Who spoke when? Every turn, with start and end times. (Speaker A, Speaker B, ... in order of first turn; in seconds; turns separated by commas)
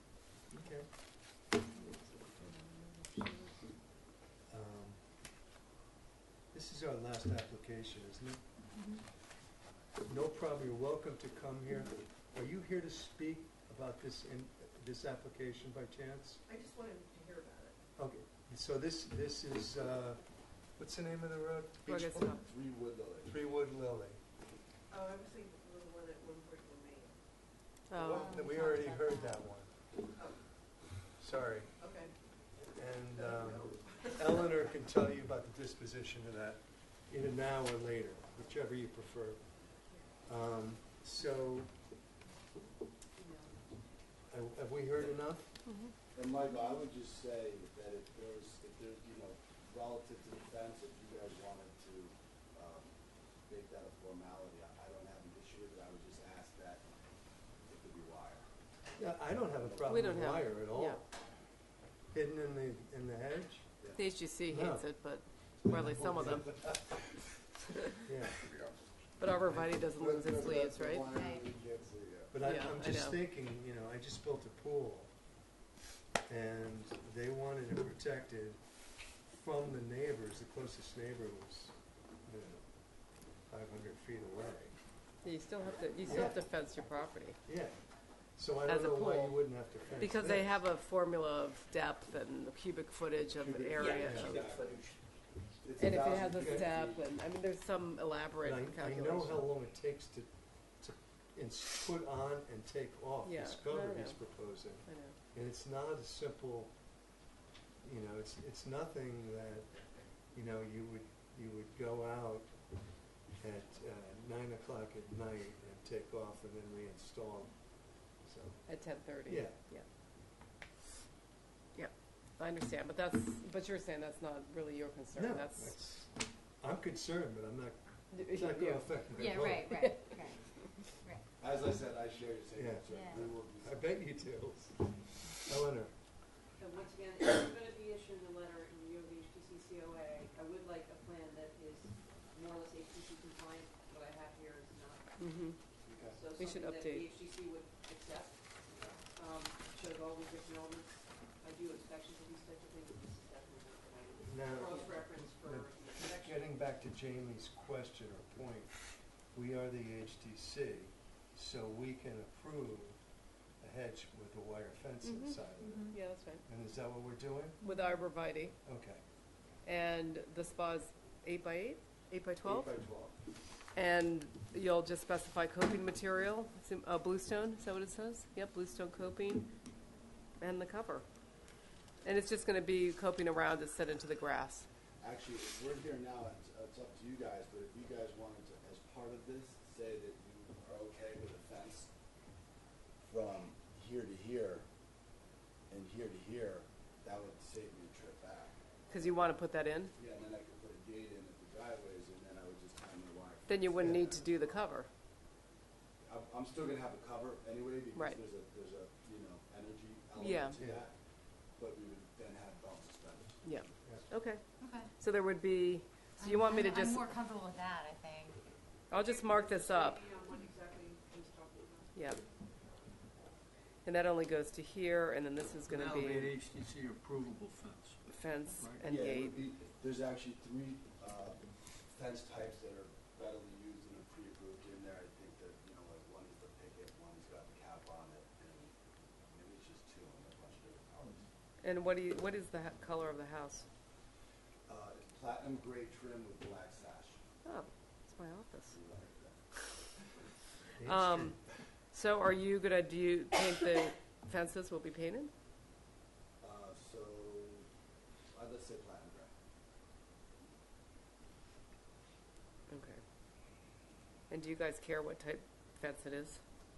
Speaker A: 0.5-0.9, Speaker B: 1.6-3.6, Speaker A: 4.5-5.0, Speaker A: 6.5-8.4, Speaker A: 10.0-16.4, Speaker C: 16.4-17.7, Speaker A: 17.9-22.4, Speaker B: 21.9-22.4, Speaker D: 22.4-23.3, Speaker A: 23.2-24.2, Speaker C: 24.9-27.1, Speaker B: 27.9-28.3, Speaker A: 27.9-29.7, Speaker E: 28.0-29.4, Speaker A: 31.2-31.8, Speaker C: 31.8-32.1, Speaker A: 32.5-39.5, Speaker C: 33.1-34.2, Speaker A: 40.2-41.7, Speaker C: 43.2-43.5, Speaker A: 44.3-45.5, Speaker B: 45.6-45.9, Speaker D: 46.1-52.9, Speaker D: 53.5-56.8, Speaker D: 57.6-58.5, Speaker A: 59.0-61.0, Speaker D: 59.5-60.4, Speaker B: 59.9-61.0, Speaker A: 62.1-63.7, Speaker B: 63.9-66.5, Speaker A: 64.5-64.9, Speaker A: 65.7-66.6, Speaker D: 66.2-67.2, Speaker A: 68.1-68.4, Speaker D: 68.5-68.7, Speaker B: 69.2-71.1, Speaker D: 69.9-72.4, Speaker E: 71.1-71.4, Speaker A: 72.3-75.1, Speaker B: 72.4-73.2, Speaker A: 76.3-78.6, Speaker A: 79.2-82.8, Speaker A: 83.5-84.7, Speaker B: 85.2-87.4, Speaker A: 86.0-86.4, Speaker A: 87.5-87.8, Speaker A: 88.3-90.6, Speaker B: 88.7-94.3, Speaker D: 93.3-94.9, Speaker F: 93.8-95.0, Speaker A: 94.0-94.4, Speaker D: 95.6-97.1, Speaker B: 95.8-99.5, Speaker A: 96.3-96.7, Speaker A: 98.4-106.8, Speaker B: 103.2-105.2, Speaker A: 107.8-112.9, Speaker A: 113.4-119.6, Speaker B: 118.7-119.8, Speaker B: 121.7-125.8, Speaker A: 125.2-129.9, Speaker B: 128.1-130.3, Speaker E: 129.1-131.2, Speaker D: 131.4-133.8, Speaker A: 132.6-135.9, Speaker E: 132.9-133.2, Speaker C: 136.6-145.0, Speaker B: 145.2-145.6, Speaker A: 145.8-146.2, Speaker C: 146.1-148.4, Speaker B: 146.4-147.0, Speaker A: 148.8-149.0, Speaker C: 149.2-156.4, Speaker A: 154.2-163.0, Speaker A: 163.6-165.9, Speaker B: 165.0-165.4, Speaker B: 165.9-166.4, Speaker A: 166.4-167.6, Speaker B: 167.6-168.5, Speaker A: 168.6-169.0, Speaker B: 169.6-172.7, Speaker D: 172.4-173.2, Speaker B: 173.7-179.5, Speaker B: 180.4-181.1, Speaker B: 182.0-184.7, Speaker D: 185.0-191.9, Speaker D: 193.0-194.7, Speaker D: 195.7-199.4, Speaker B: 198.9-199.9, Speaker D: 199.9-204.6, Speaker B: 203.5-204.9, Speaker D: 206.0-211.0, Speaker B: 210.2-210.6, Speaker A: 210.5-210.8, Speaker D: 211.6-213.4, Speaker B: 213.4-214.4, Speaker E: 214.6-214.9, Speaker B: 215.0-217.2, Speaker E: 216.2-218.4, Speaker B: 218.9-220.1, Speaker C: 219.0-221.9, Speaker B: 221.9-222.2, Speaker B: 223.8-226.3, Speaker F: 225.7-228.0, Speaker B: 228.1-229.4, Speaker D: 228.8-238.7, Speaker D: 239.3-241.3, Speaker B: 241.6-243.7, Speaker D: 244.7-247.2, Speaker B: 247.4-248.8, Speaker D: 248.7-249.4, Speaker A: 250.8-251.3, Speaker B: 250.8-251.4, Speaker B: 251.9-255.3, Speaker D: 256.4-257.6, Speaker D: 258.3-259.3, Speaker B: 262.7-263.0, Speaker B: 264.3-266.4